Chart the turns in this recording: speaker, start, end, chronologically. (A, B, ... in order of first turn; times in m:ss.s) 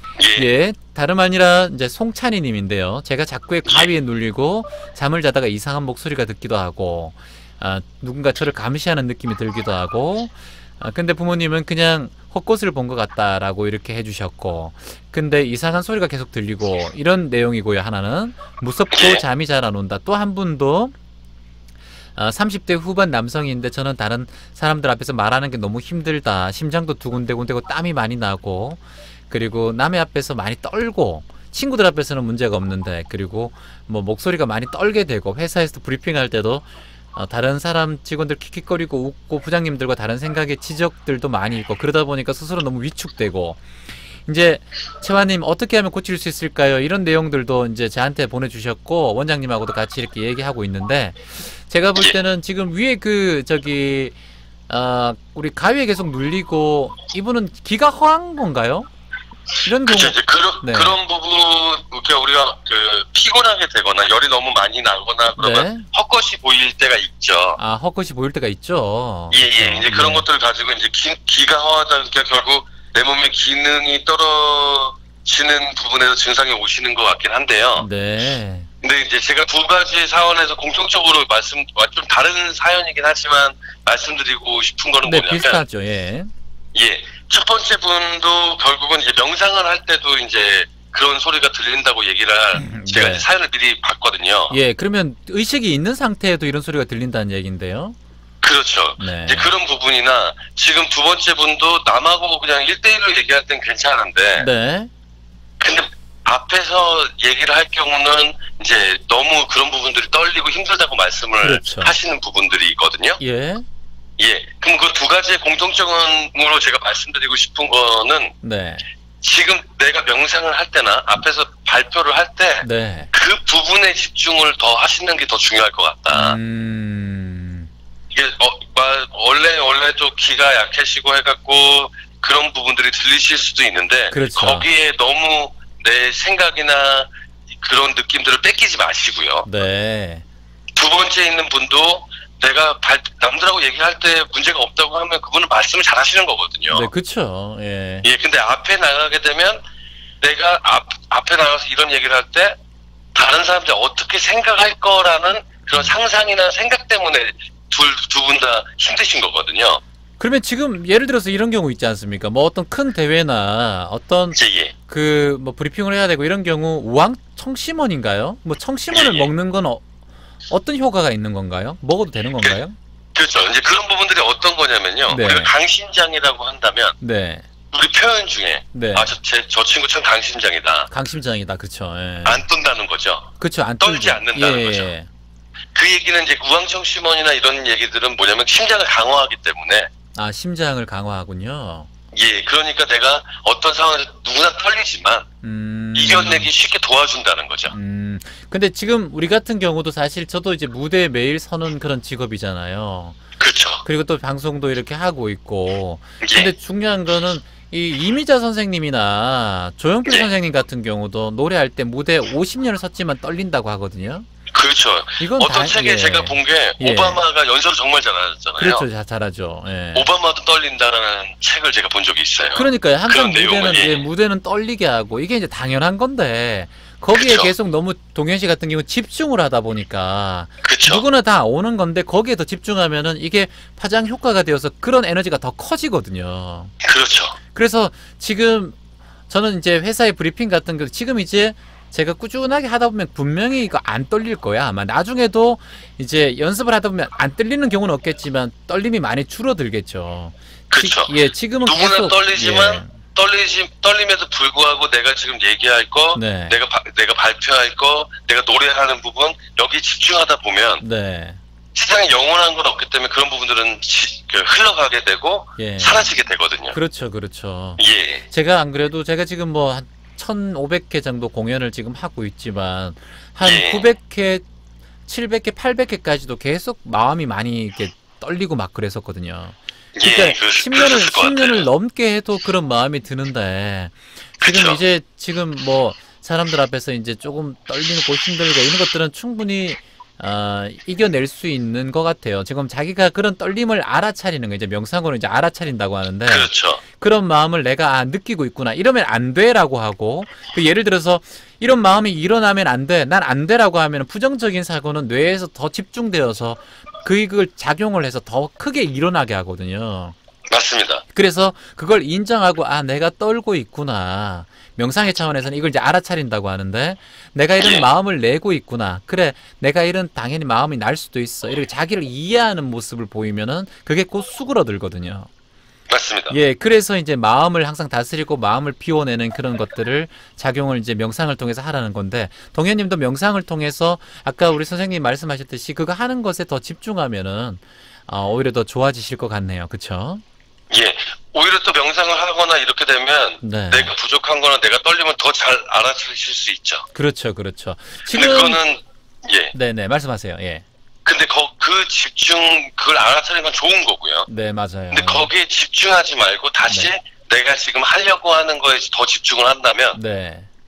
0:00.2-0:00.5 A
0:00.4-0:20.9 B
0:18.9-0:19.2 A
0:22.2-0:54.2 B
0:54.7-0:58.9 B
0:59.6-1:01.0 B
0:59.8-1:07.6 A
1:05.4-1:05.9 B
1:07.6-1:10.2 B
1:09.3-1:17.9 A
1:17.8-1:18.7 B
1:18.8-1:25.6 A
1:25.0-1:26.3 B
1:26.7-1:34.6 A
1:32.6-1:33.3 B
1:34.5-1:38.0 B
1:38.4-1:44.5 A
1:39.0-1:39.5 B
1:44.4-1:44.9 B
1:45.6-1:53.2 A
1:51.4-1:52.0 B
1:53.2-1:53.7 B
1:54.2-1:58.3 A
1:58.4-1:58.8 B
1:59.2-2:06.4 A
2:02.6-2:03.1 B
2:06.1-2:07.7 B
2:08.1-2:17.1 A
2:14.1-2:14.7 B
2:17.6-2:19.5 A
2:19.4-2:20.2 B
2:20.8-2:26.9 A
2:26.7-2:28.1 B
2:28.0-2:29.6 A
2:30.2-2:32.6 A
2:33.1-2:39.8 A
2:40.2-2:49.8 B
2:44.3-2:44.7 A
2:48.9-2:49.3 A
2:50.5-2:52.7 B
2:53.1-2:57.0 A
2:55.1-2:55.5 B
2:57.0-2:57.4 B
2:57.7-3:00.9 A
2:58.7-2:59.1 B
3:00.9-3:02.4 B
3:02.2-3:04.9 A
3:03.4-3:05.1 B
3:05.7-3:09.9 A
3:10.1-3:11.9 B
3:12.1-3:15.2 A
3:15.4-3:16.5 B
3:15.9-3:17.7 A
3:17.7-3:23.2 B
3:23.4-3:23.8 A
3:23.8-3:34.3 B
3:26.2-3:26.5 A
3:34.5-3:38.8 A
3:35.2-3:37.2 B
3:38.6-3:40.1 B
3:39.9-3:44.0 A
3:42.5-3:56.7 B
3:47.1-3:47.5 A
3:50.6-3:51.0 A
3:56.8-3:57.4 A
3:57.5-3:58.8 B
3:59.3-4:12.9 B
4:10.7-4:20.8 A
4:16.1-4:16.6 B
4:20.8-4:21.4 B
4:21.8-4:26.8 A
4:25.6-4:26.1 B
4:26.7-4:34.4 B
4:27.8-4:28.2 A
4:33.4-4:33.9 A
4:35.1-5:10.2 B
4:40.0-4:41.7 A
4:44.4-4:44.8 A
4:56.3-4:56.8 A
5:10.5-5:11.0 A
5:11.1-5:25.3 B
5:17.6-5:17.9 A
5:25.9-5:26.4 A
5:26.3-5:40.2 B
5:40.7-5:46.8 A
5:43.4-5:43.9 B
5:46.9-5:48.6 B
5:48.1-5:49.5 A
5:49.5-5:50.6 B
5:51.0-5:54.3 A
5:54.3-5:55.3 B
5:54.9-6:00.0 A
5:59.9-6:00.5 B